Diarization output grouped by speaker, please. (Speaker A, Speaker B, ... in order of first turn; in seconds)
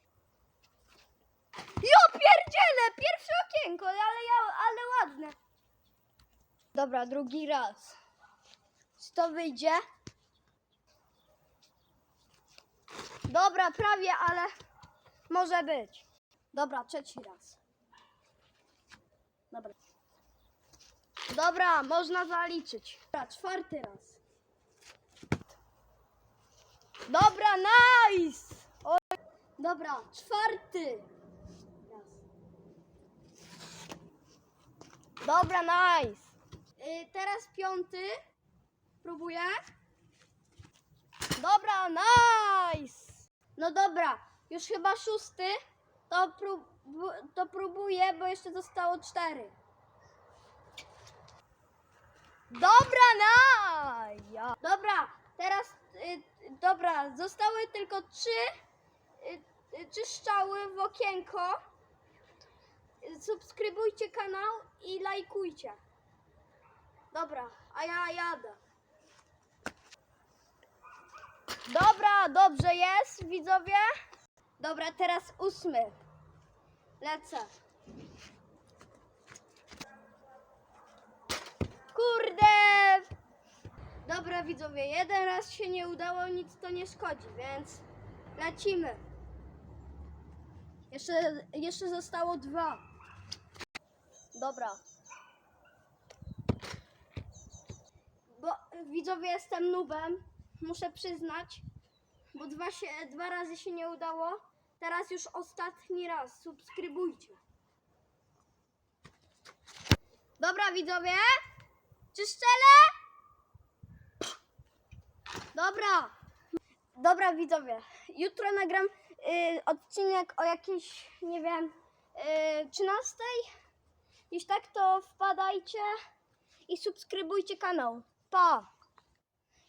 Speaker A: 1.8-5.4, 6.7-8.0, 9.0-9.8, 13.3-14.5, 15.3-17.6, 19.5-19.8, 21.3-24.2, 27.1-29.1, 29.6-31.1, 31.9-32.2, 35.2-38.2, 39.0-39.6, 41.4-49.5, 52.5-58.5, 59.2-61.6, 63.0-65.8, 67.1-68.6, 71.7-73.9, 74.6-76.0, 77.0-77.5, 81.9-83.1, 84.0-87.8, 88.3-89.0, 90.9-92.8, 94.3-94.8, 98.3-101.7, 102.3-107.4, 110.4-111.4, 112.1-113.0, 115.5-116.1, 117.0-123.5, 124.3-125.9, 126.7-128.7